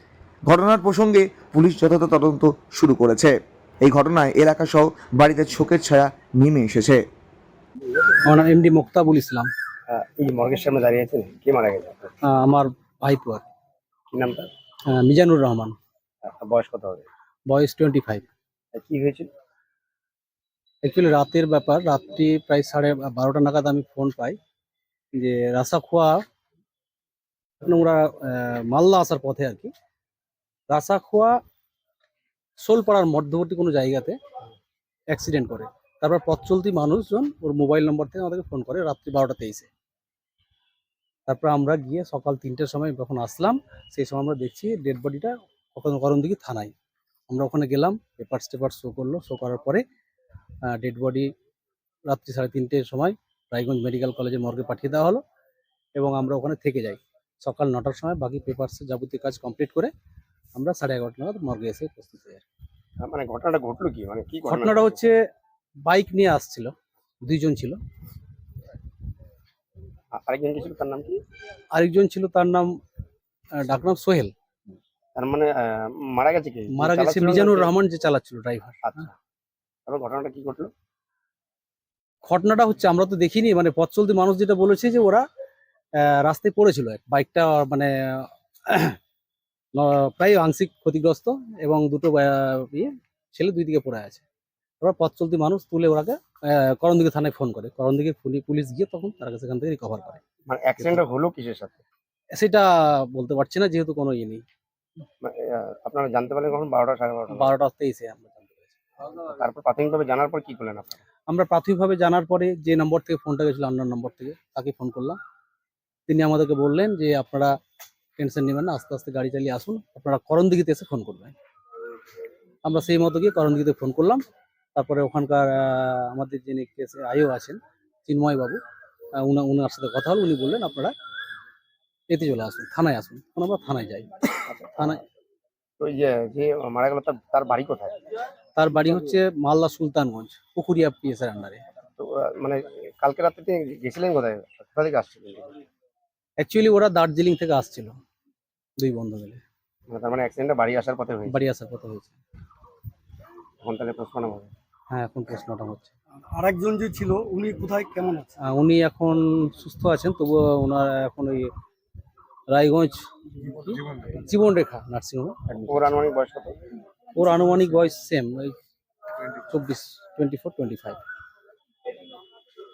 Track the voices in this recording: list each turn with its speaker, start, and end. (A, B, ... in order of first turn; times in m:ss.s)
0:00.4-0:07.0 A
0:08.2-0:09.5 B
0:09.9-0:12.1 C
0:12.2-0:13.4 B
0:14.1-0:14.5 C
0:14.9-0:15.7 B
0:16.2-0:17.0 C
0:17.5-0:18.3 B
0:18.7-0:19.3 C
0:20.8-0:24.4 B
0:25.1-0:26.2 B
0:27.6-0:29.7 B
0:30.7-0:31.3 B
0:32.6-0:34.2 B
0:35.1-0:39.7 B
0:41.3-0:46.7 B
0:47.3-0:49.8 B
0:50.7-0:51.3 B
0:52.1-0:55.2 B
0:56.0-0:59.9 B
1:00.5-1:02.4 B
1:03.0-1:05.0 C
1:04.4-1:05.1 B
1:05.8-1:06.7 B
1:07.2-1:07.8 B
1:10.1-1:11.2 C
1:11.7-1:12.7 B
1:13.6-1:14.3 B
1:15.2-1:17.7 C
1:16.7-1:19.0 B
1:18.8-1:19.1 C
1:19.9-1:20.7 C
1:22.2-1:25.2 B
1:26.0-1:29.0 B
1:29.7-1:34.2 B
1:34.8-1:40.2 B
1:40.5-1:41.8 C
1:42.3-1:44.4 B
1:45.2-1:47.5 C
1:47.3-1:48.6 B
1:49.1-1:51.0 C
1:51.3-1:55.2 B
1:56.1-1:57.5 B
1:58.2-2:01.3 B
2:02.6-2:04.2 B
2:04.8-2:08.6 B
2:09.2-2:10.9 B
2:12.1-2:14.1 B
2:14.5-2:14.9 C
2:14.8-2:15.0 B
2:15.8-2:18.0 C
2:18.6-2:21.6 B
2:22.0-2:25.5 C
2:26.4-2:27.9 B
2:28.8-2:29.4 B
2:29.9-2:31.4 C
2:31.3-2:32.1 B
2:33.6-2:34.5 C
2:34.9-2:35.9 B
2:36.3-2:38.3 D
2:38.4-2:41.5 B
2:42.5-2:45.9 B
2:45.6-2:46.6 C
2:47.1-2:48.6 B
2:49.4-2:51.0 B